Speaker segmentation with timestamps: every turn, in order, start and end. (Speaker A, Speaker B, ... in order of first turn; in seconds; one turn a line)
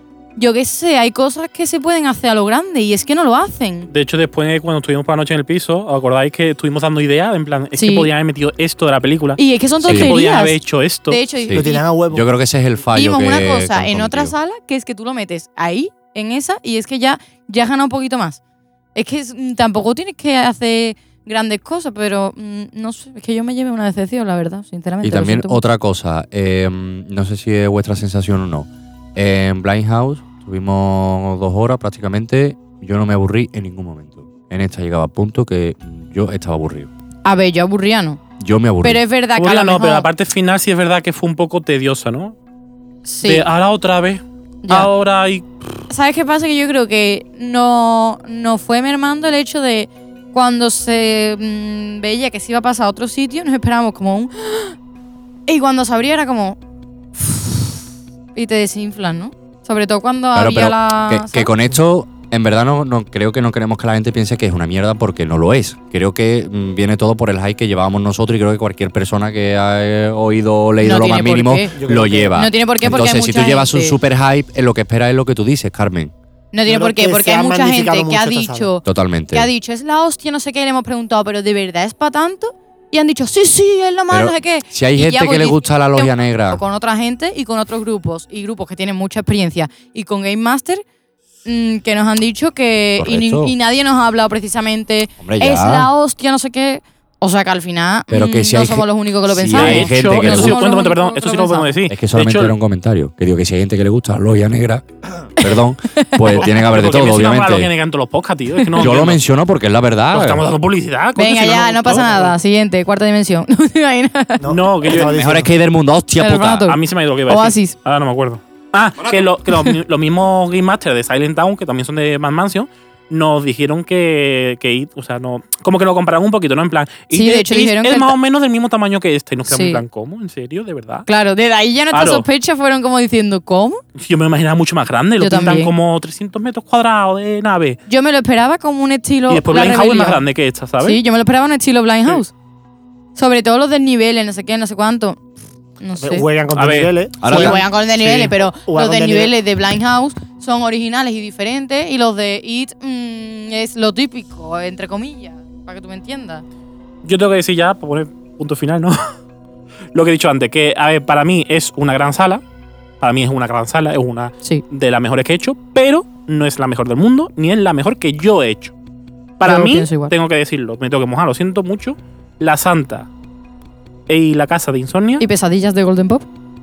Speaker A: 0.3-3.9
Speaker B: 3.9-11.2
Speaker A: 7.8-8.1
Speaker A: 9.4-11.8
Speaker C: 9.8-10.1
Speaker C: 11.4-14.3
Speaker D: 11.5-12.2
Speaker A: 12.9-18.4
Speaker A: 18.9-25.6
Speaker C: 25.0-36.9
Speaker A: 37.2-38.2
Speaker C: 38.4-39.0
Speaker A: 38.8-40.1
Speaker B: 39.4-42.4
Speaker A: 43.0-43.5
Speaker B: 43.2-45.5
Speaker A: 45.9-54.8
Speaker A: 55.5-56.6
Speaker A: 57.2-57.8
Speaker A: 58.3-61.5
Speaker C: 60.3-76.1
Speaker A: 70.8-71.7
Speaker D: 71.7-72.4
Speaker A: 72.3-74.0
Speaker A: 76.5-90.8
Speaker D: 76.7-78.7
Speaker C: 78.8-79.5
Speaker C: 84.1-86.6
Speaker A: 91.4-101.8
Speaker C: 93.0-93.5
Speaker C: 95.2-95.9
Speaker C: 98.1-100.6
Speaker B: 99.5-102.5
Speaker C: 101.9-107.7
Speaker A: 105.4-106.2
Speaker B: 106.3-109.2
Speaker C: 108.8-110.5
Speaker B: 110.1-112.3
Speaker A: 111.2-114.4
Speaker D: 114.4-115.5
Speaker B: 114.5-115.3
Speaker C: 114.9-116.7
Speaker A: 116.2-117.8
Speaker B: 116.7-131.1
Speaker A: 127.1-128.1
Speaker A: 129.5-129.8
Speaker A: 131.1-133.8
Speaker B: 131.9-132.2
Speaker B: 134.0-137.8
Speaker A: 135.2-135.7
Speaker A: 137.9-140.2
Speaker B: 139.3-141.0
Speaker A: 140.8-142.3
Speaker A: 143.2-145.2
Speaker A: 145.8-146.2
Speaker D: 146.0-149.3
Speaker B: 146.5-146.9
Speaker C: 147.2-147.6
Speaker A: 147.2-156.4
Speaker B: 157.0-159.0
Speaker B: 159.9-162.4
Speaker B: 163.0-168.7
Speaker B: 169.4-173.1
Speaker A: 169.4-170.1
Speaker B: 174.1-175.2
Speaker A: 175.2-176.3